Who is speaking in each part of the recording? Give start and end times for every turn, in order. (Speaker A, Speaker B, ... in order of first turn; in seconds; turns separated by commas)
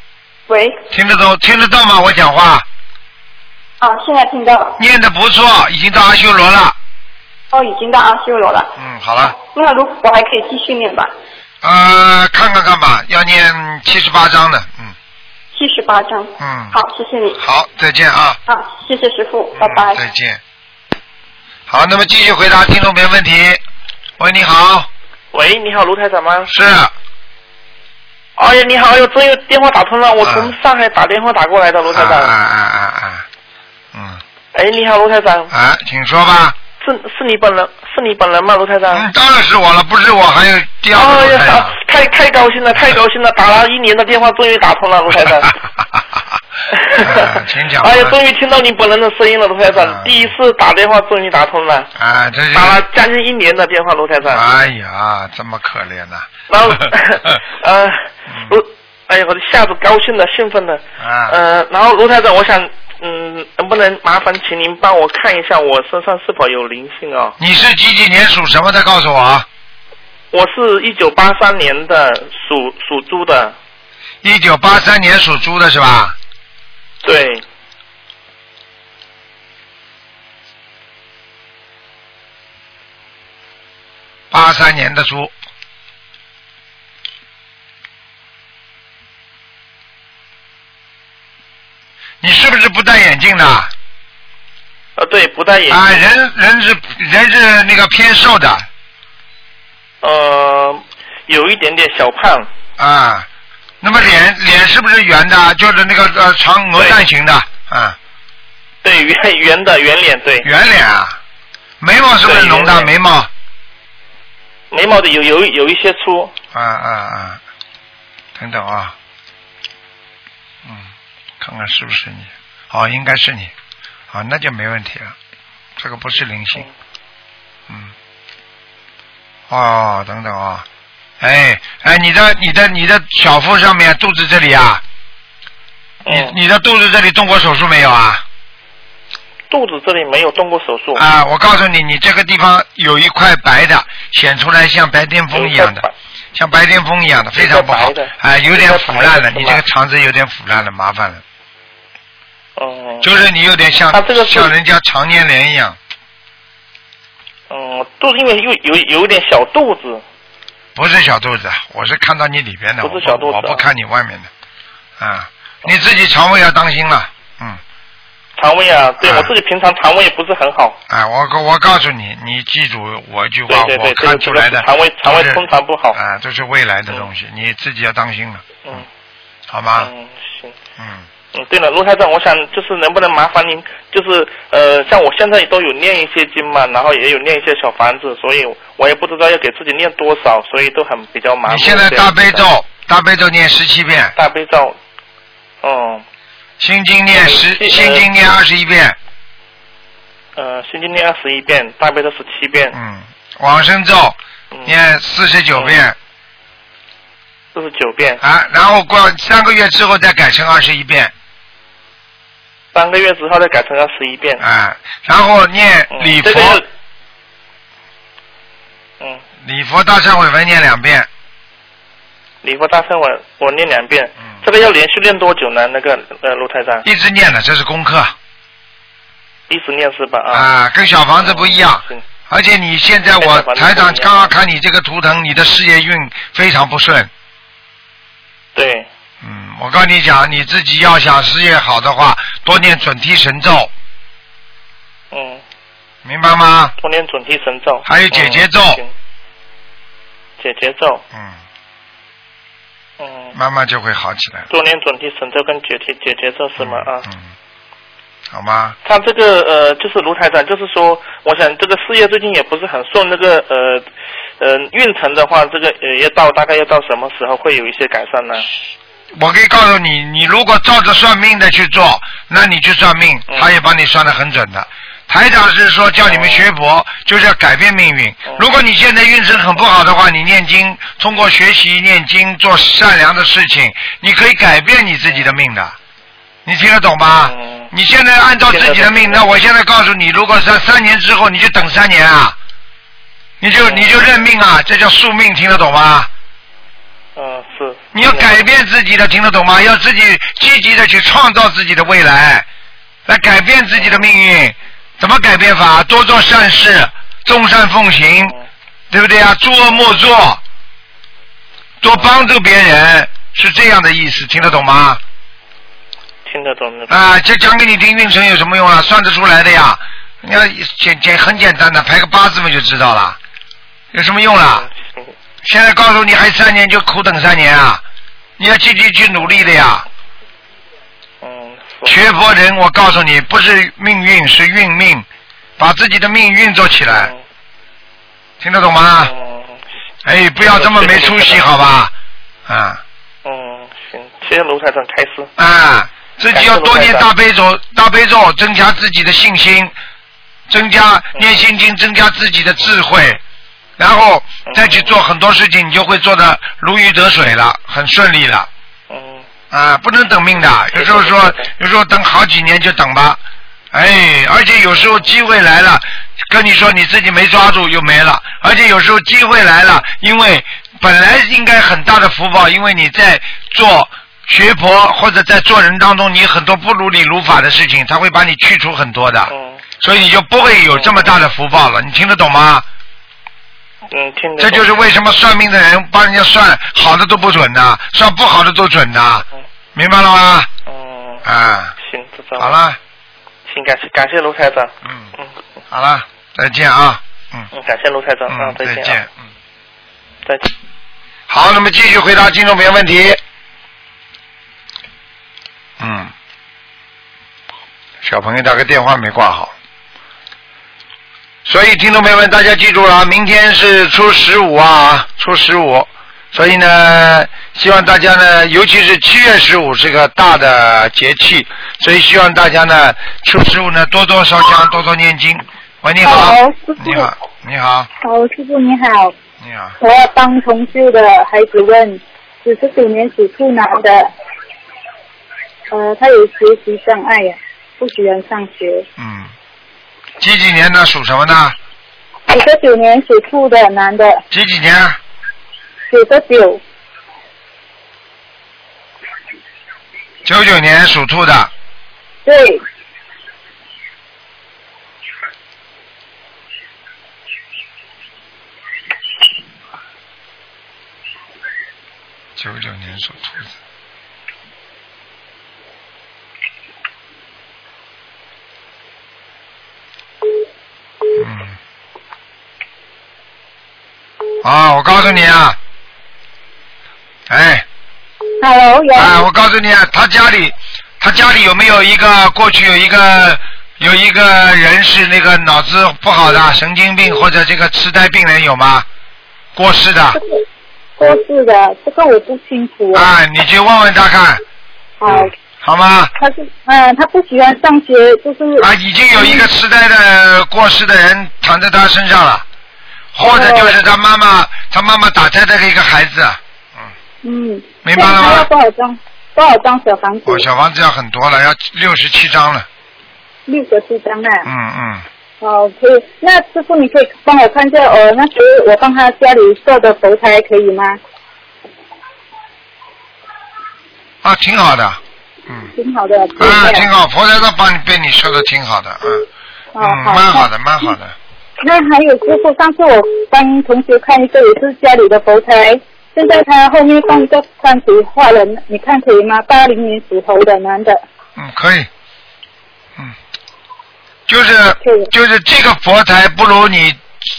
Speaker A: 0.5-0.8, Speaker B: 0.9-2.6, Speaker A: 3.8-4.8, Speaker B: 4.8-6.7, Speaker A: 7.5-8.7, Speaker B: 8.8-9.3, Speaker A: 9.2-11.1, Speaker B: 11.6-14.9, Speaker A: 15.5-17.4, Speaker B: 16.4-16.8, Speaker B: 17.4-18.4, Speaker A: 18.5-20.0, Speaker B: 19.6-20.4, Speaker B: 21.7-23.6, Speaker B: 24.2-24.9, Speaker C: 25.3-26.5, Speaker B: 26.4-26.9, Speaker C: 28.4-32.3, Speaker B: 30.2-30.5, Speaker B: 31.9-33.2, Speaker B: 33.9-34.2, Speaker C: 34.5-35.5, Speaker B: 35.5-36.6, Speaker C: 36.8-39.1, Speaker B: 38.9-41.7, Speaker C: 40.9-45.5, Speaker C: 46.7-51.9, Speaker B: 47.0-48.2, Speaker B: 49.7-50.3, Speaker B: 52.0-52.8, Speaker C: 52.5-54.5, Speaker B: 54.2-56.9, Speaker C: 56.5-67.3, Speaker B: 58.3-58.6, Speaker B: 61.0-61.4, Speaker B: 67.4-69.5, Speaker C: 70.3-73.5, Speaker B: 74.2-76.2, Speaker C: 77.0-77.4, Speaker B: 84.3-85.3, Speaker B: 92.2-93.7, Speaker C: 95.0-96.0, Speaker B: 95.7-98.7, Speaker C: 100.0-102.5, Speaker B: 102.8-103.3, Speaker B: 103.8-108.0, Speaker C: 106.8-107.0, Speaker C: 108.8-110.5, Speaker B: 110.4-111.2, Speaker B: 111.8-113.3, Speaker C: 112.2-112.9, Speaker C: 114.7-116.3, Speaker B: 116.5-117.4, Speaker B: 118.3-118.9, Speaker B: 120.6-123.5, Speaker B: 124.1-125.2, Speaker B: 125.8-126.7, Speaker B: 129.5-130.7, Speaker B: 131.2-134.8, Speaker C: 136.0-136.4, Speaker B: 136.1-138.2, Speaker C: 139.5-141.1, Speaker B: 140.9-151.2, Speaker C: 145.3-145.9, Speaker C: 147.3-149.6, Speaker C: 152.6-153.1, Speaker B: 153.0-155.8, Speaker C: 153.9-154.5, Speaker C: 157.5-160.0, Speaker B: 160.7-164.3, Speaker C: 162.8-163.6, Speaker B: 165.0-167.6, Speaker C: 168.4-170.8, Speaker B: 169.0-169.3, Speaker B: 170.9-178.8, Speaker C: 173.5-176.0, Speaker B: 179.5-179.9, Speaker C: 179.8-180.5, Speaker B: 180.8-181.1, Speaker C: 181.3-192.5, Speaker B: 191.4-194.1, Speaker C: 194.1-194.8, Speaker C: 195.6-196.0, Speaker B: 196.6-199.0, Speaker C: 197.1-198.1, Speaker C: 200.3-202.8, Speaker B: 202.7-205.9, Speaker C: 204.5-204.8, Speaker C: 205.5-205.8, Speaker C: 207.5-208.2, Speaker B: 208.2-211.1, Speaker C: 212.7-214.4, Speaker B: 214.4-216.6, Speaker C: 215.9-216.7, Speaker B: 219.4-221.1, Speaker C: 222.4-226.8, Speaker B: 226.8-228.1, Speaker C: 229.5-230.5, Speaker B: 230.3-237.1, Speaker C: 231.2-232.0, Speaker C: 233.2-234.3, Speaker C: 238.5-238.9, Speaker B: 239.2-243.7, Speaker C: 245.1-245.4, Speaker B: 246.0-246.7, Speaker C: 246.8-248.9, Speaker B: 247.8-248.8, Speaker C: 250.4-251.0, Speaker B: 251.1-251.4, Speaker C: 253.0-253.3, Speaker B: 253.3-254.5, Speaker C: 254.5-257.1, Speaker B: 256.6-257.3, Speaker B: 258.3-258.8, Speaker C: 258.8-263.9, Speaker C: 264.4-268.5, Speaker B: 269.2-285.8, Speaker C: 273.3-273.5, Speaker C: 276.0-276.5, Speaker B: 286.4-292.4, Speaker C: 287.2-287.7, Speaker C: 288.5-289.3, Speaker B: 293.4-296.1, Speaker C: 293.6-294.3, Speaker C: 297.1-298.4, Speaker B: 297.9-302.5, Speaker B: 303.1-308.3, Speaker C: 303.8-304.1, Speaker B: 308.9-310.4, Speaker B: 311.8-315.0, Speaker C: 311.9-312.2, Speaker C: 316.2-317.0, Speaker B: 316.9-323.2, Speaker B: 323.9-324.7, Speaker C: 324.4-325.1, Speaker B: 325.4-327.8, Speaker B: 328.4-329.9, Speaker C: 331.2-332.0, Speaker B: 331.8-335.1, Speaker B: 335.6-337.1, Speaker C: 336.9-337.2, Speaker B: 338.4-339.1, Speaker C: 339.0-339.6, Speaker B: 340.0-341.9, Speaker C: 340.4-341.5, Speaker B: 342.5-342.8, Speaker C: 343.2-345.3, Speaker B: 345.4-349.7, Speaker C: 346.3-347.1, Speaker B: 350.5-353.2, Speaker B: 353.8-358.5, Speaker C: 354.4-354.9, Speaker C: 358.9-359.3, Speaker B: 359.5-363.2, Speaker C: 360.7-361.5, Speaker B: 363.7-382.6, Speaker C: 379.3-379.6, Speaker C: 380.7-381.1, Speaker C: 383.9-384.7, Speaker B: 384.4-390.5, Speaker C: 390.6-391.2, Speaker B: 391.2-391.7, Speaker C: 391.8-392.6, Speaker B: 392.4-392.8, Speaker C: 393.5-395.3, Speaker B: 394.8-395.1, Speaker B: 395.7-397.5, Speaker C: 397.5-399.0, Speaker B: 398.3-399.2, Speaker C: 400.2-400.5, Speaker B: 401.3-403.2, Speaker B: 405.8-406.1, Speaker B: 408.0-409.5, Speaker B: 411.4-427.9, Speaker D: 426.0-427.1, Speaker D: 428.0-429.1, Speaker B: 429.4-429.7, Speaker D: 429.8-434.1, Speaker D: 435.7-438.9, Speaker B: 439.0-439.3, Speaker B: 440.2-441.6, Speaker D: 442.3-444.2, Speaker B: 444.3-445.0, Speaker D: 445.9-446.6, Speaker B: 450.2-451.5, Speaker D: 452.2-452.6, Speaker B: 462.4-463.5, Speaker B: 471.1-471.6, Speaker B: 474.4-475.6, Speaker B: 477.3-477.6, Speaker D: 478.4-479.1, Speaker B: 478.9-488.9, Speaker B: 489.6-490.2, Speaker D: 490.2-490.4, Speaker D: 491.0-493.1, Speaker B: 492.9-494.4, Speaker D: 495.0-495.3, Speaker B: 495.1-496.1, Speaker D: 496.2-499.5, Speaker B: 498.6-502.4, Speaker B: 503.1-506.9, Speaker D: 503.2-503.8, Speaker D: 507.2-510.4, Speaker B: 507.8-508.5, Speaker B: 510.2-512.7, Speaker D: 513.5-514.5, Speaker B: 514.4-515.0, Speaker D: 515.4-521.0, Speaker B: 524.2-525.6, Speaker D: 525.8-526.9, Speaker B: 526.4-529.3, Speaker D: 529.7-530.5, Speaker B: 529.8-531.1, Speaker D: 531.6-541.0, Speaker B: 541.4-541.9, Speaker B: 544.3-547.0, Speaker D: 544.8-545.1